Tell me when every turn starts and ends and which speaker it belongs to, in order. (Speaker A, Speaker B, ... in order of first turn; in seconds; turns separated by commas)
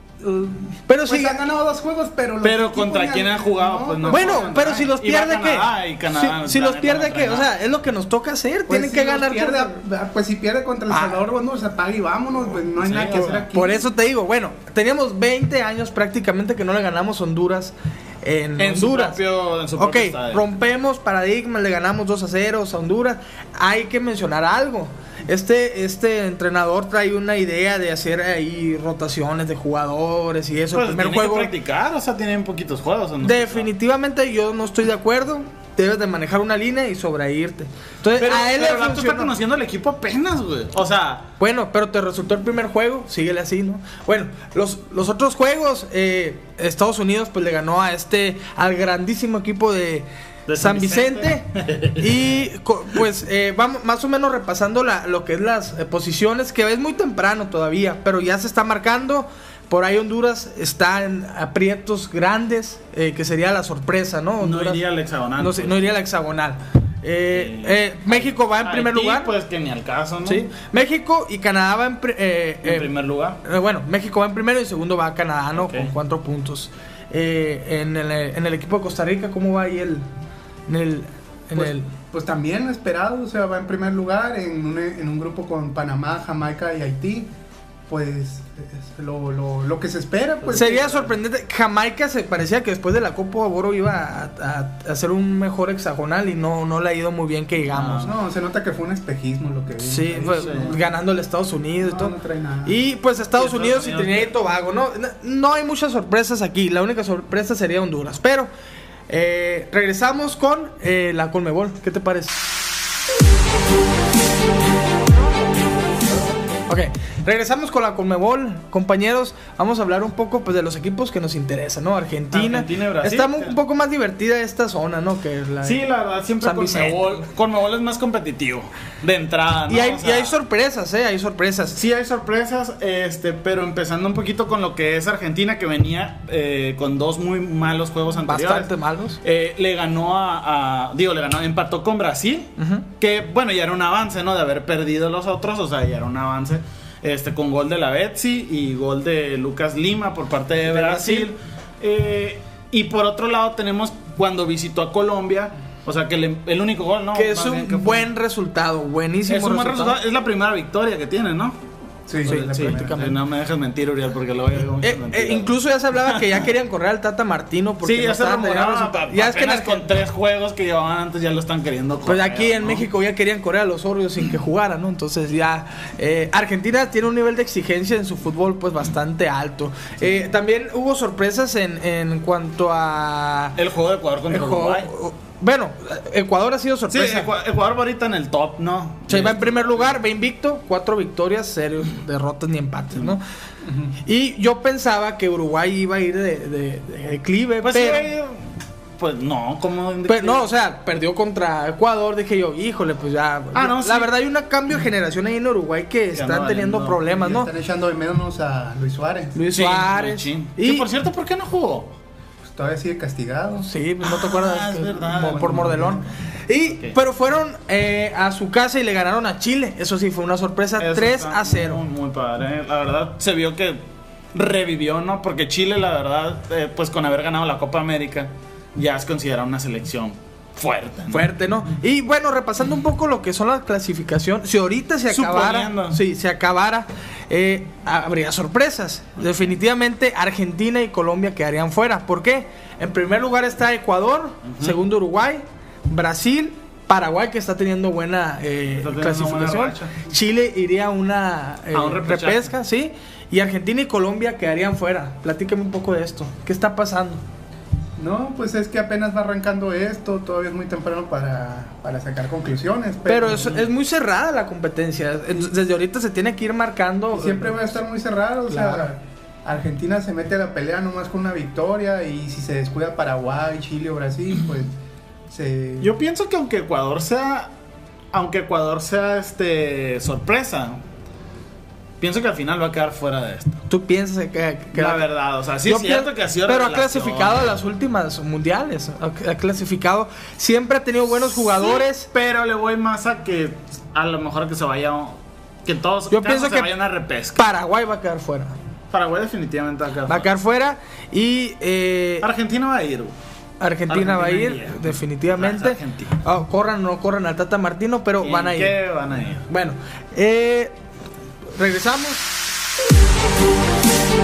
Speaker A: 0.2-4.5, Speaker B: 0.9-1.4, Speaker C: 2.4-7.5, Speaker B: 4.1-9.7, Speaker A: 8.7-13.9, Speaker B: 10.9-11.2, Speaker C: 12.8-13.5, Speaker B: 13.5-19.2, Speaker C: 18.6-20.4, Speaker B: 19.8-31.5, Speaker C: 30.7-33.7, Speaker B: 33.2-39.3, Speaker C: 38.2-41.2, Speaker B: 41.4-64.8, Speaker C: 50.5-52.4, Speaker C: 64.4-66.0, Speaker B: 65.4-69.3, Speaker C: 67.3-70.5, Speaker B: 70.2-72.9, Speaker C: 72.6-73.4, Speaker B: 73.4-80.0, Speaker C: 75.5-75.9, Speaker B: 80.7-81.9, Speaker A: 81.5-87.3, Speaker A: 87.9-90.8, Speaker C: 90.4-91.1, Speaker B: 90.5-98.1, Speaker C: 97.7-98.1, Speaker A: 98.0-100.8, Speaker B: 99.8-102.1, Speaker C: 100.4-100.7, Speaker A: 101.8-102.8, Speaker B: 102.7-108.5, Speaker C: 103.3-104.3, Speaker B: 109.1-112.3, Speaker B: 116.7-125.8, Speaker C: 122.3-123.5, Speaker C: 125.6-130.3, Speaker B: 126.4-127.3, Speaker B: 129.7-131.8, Speaker C: 131.8-138.7, Speaker B: 138.2-139.2, Speaker C: 139.2-158.1, Speaker B: 142.6-142.8, Speaker B: 150.7-151.3, Speaker B: 157.1-160.0, Speaker C: 159.3-161.6, Speaker A: 162.1-163.1, Speaker C: 162.2-165.5, Speaker B: 162.3-163.2, Speaker B: 164.8-169.8, Speaker C: 166.1-166.4, Speaker C: 167.8-172.9, Speaker B: 172.1-183.6, Speaker C: 183.6-184.9, Speaker B: 184.3-187.3, Speaker C: 186.9-190.0, Speaker B: 189.1-193.2, Speaker A: 193.6-193.9, Speaker B: 194.0-198.1, Speaker C: 197.6-198.5, Speaker C: 199.0-200.4, Speaker B: 200.1-207.5, Speaker C: 203.5-204.1, Speaker C: 206.1-207.0, Speaker A: 207.0-209.4, Speaker B: 209.3-210.8, Speaker C: 209.5-211.9, Speaker A: 212.4-213.7, Speaker B: 213.6-221.8, Speaker C: 214.0-216.1, Speaker A: 215.3-215.9, Speaker C: 216.7-217.0, Speaker C: 220.8-223.8, Speaker C: 224.3-231.2, Speaker B: 231.1-257.2, Speaker C: 235.1-236.0, Speaker C: 244.4-244.8, Speaker C: 248.7-250.0, Speaker C: 251.7-252.5, Speaker A: 258.0-263.7, Speaker B: 263.1-267.8, Speaker A: 267.1-274.7, Speaker B: 268.5-268.9, Speaker A: 275.3-275.9, Speaker C: 275.8-277.5, Speaker C: 278.1-280.8, Speaker C: 282.0-283.6, Speaker B: 283.7-285.1, Speaker C: 284.7-287.5, Speaker B: 285.6-292.1, Speaker C: 291.3-297.4, Speaker B: 296.1-296.7, Speaker B: 297.4-298.6, Speaker C: 298.9-300.3, Speaker B: 300.1-302.3, Speaker C: 302.2-303.1, Speaker B: 303.6-308.8, Speaker C: 303.9-306.1, Speaker C: 308.2-309.5, Speaker B: 309.5-310.7, Speaker B: 311.5-312.3